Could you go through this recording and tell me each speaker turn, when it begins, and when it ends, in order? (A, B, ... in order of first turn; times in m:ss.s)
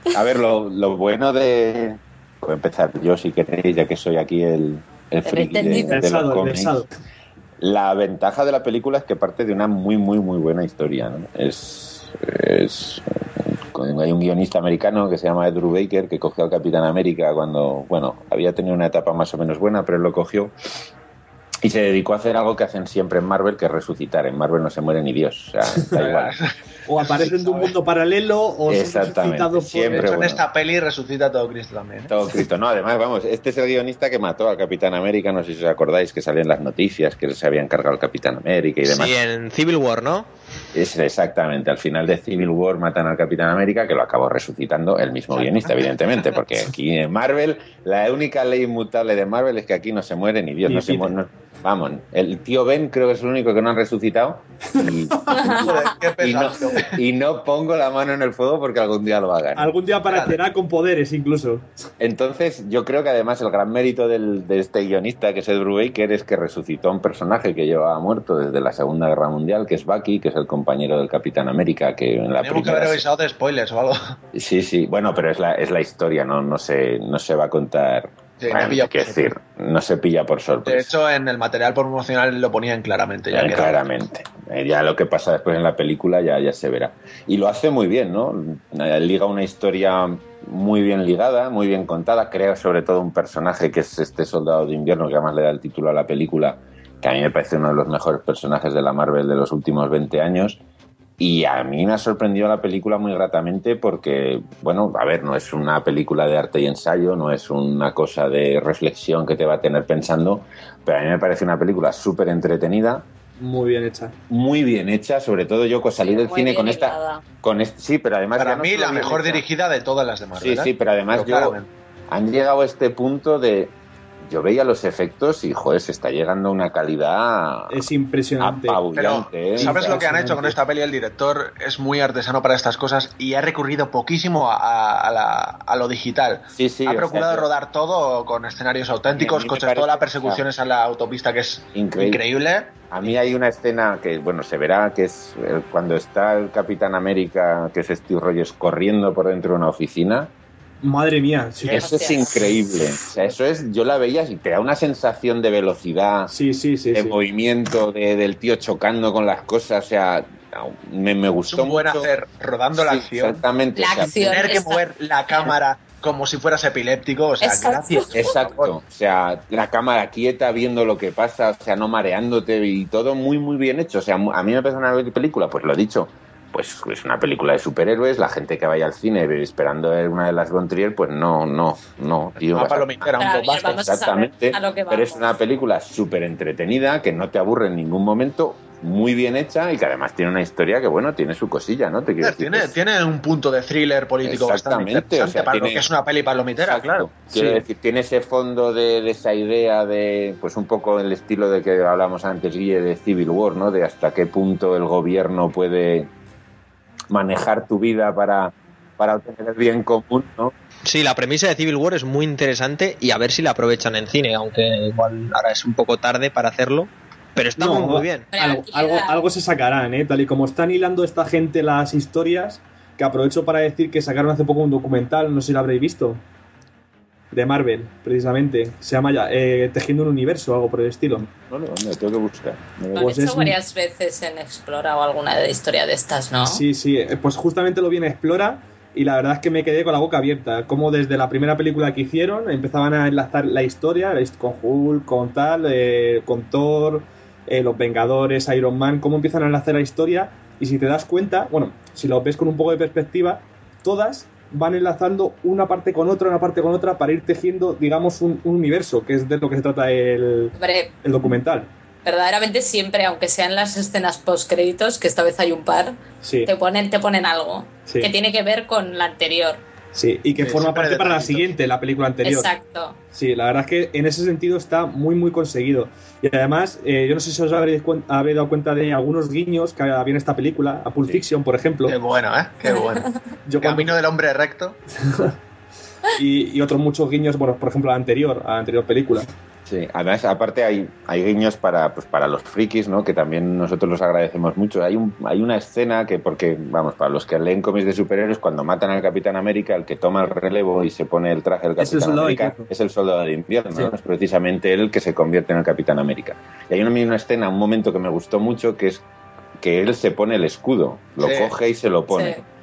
0:00.1-0:06.8 A
0:05.2-0:06.0 B
0:05.9-0:06.9 C
0:07.6-0:20.6 A
0:21.6-0:26.4 A
0:26.0-0:27.8 D
0:26.9-0:30.1 C
0:28.7-0:30.4 A
0:29.9-0:32.1 D
0:32.1-0:39.2 A
0:38.8-0:40.3 E
0:40.7-0:59.8 A
0:45.3-0:45.9 D
0:50.7-0:51.1 C
0:54.8-0:55.4 C
0:55.3-0:55.9 B
0:55.5-0:57.0 D
0:59.6-1:01.8 C
1:00.1-1:00.4 D
1:02.0-1:13.1 A
1:12.4-1:14.2 D
1:14.3-1:21.0 A
1:18.4-1:19.2 D
1:20.7-1:23.8 D
1:23.3-1:40.6 A
1:41.2-1:53.1 A
1:53.4-1:54.2 C
1:54.3-1:59.4 A
1:56.0-1:57.2 B
1:58.4-2:01.7 D
2:00.4-2:01.6 A
2:02.1-2:07.8 A
2:07.7-2:08.9 C
2:08.4-2:10.0 A
2:08.9-2:23.2 D
2:09.6-2:10.6 C
2:16.5-2:17.5 A
2:19.1-2:20.4 A
2:21.7-2:22.2 A
2:22.9-2:30.3 A
2:30.8-2:32.2 C
2:31.6-2:36.3 A
2:31.7-2:32.3 B
2:36.3-2:37.2 C
2:36.9-2:42.1 A
2:41.5-2:43.4 D
2:42.7-2:44.2 A
2:43.8-2:44.8 B
2:44.2-2:48.8 D
2:47.4-2:48.3 B
2:48.1-3:12.8 A
3:02.4-3:03.8 D
3:03.2-3:05.3 B
3:12.2-3:17.1 D
3:14.2-3:15.9 A
3:16.6-3:26.1 A
3:17.3-3:17.6 C
3:27.1-3:30.6 A
3:30.9-3:38.3 E
3:37.6-3:46.2 C
3:38.3-3:39.2 B
3:47.3-3:51.3 C
3:51.4-3:53.1 A
3:53.0-3:53.6 C
3:53.0-3:56.6 B
3:56.5-4:21.7 C
4:20.6-4:20.9 B
4:22.0-4:29.6 B
4:26.2-4:26.5 C
4:27.9-4:28.1 C
4:29.9-4:32.5 C
4:30.3-4:31.5 D
4:32.2-4:33.0 B
4:33.1-4:42.0 C
4:41.8-4:43.1 D
4:42.6-4:43.1 B
4:43.5-4:43.9 C
4:43.6-4:44.8 D
4:45.0-4:45.4 C
4:46.2-4:49.3 C
4:49.7-5:09.0 A
5:01.8-5:02.7 C
5:09.6-5:12.4 A
5:11.2-5:11.5 D
5:12.1-5:12.4 B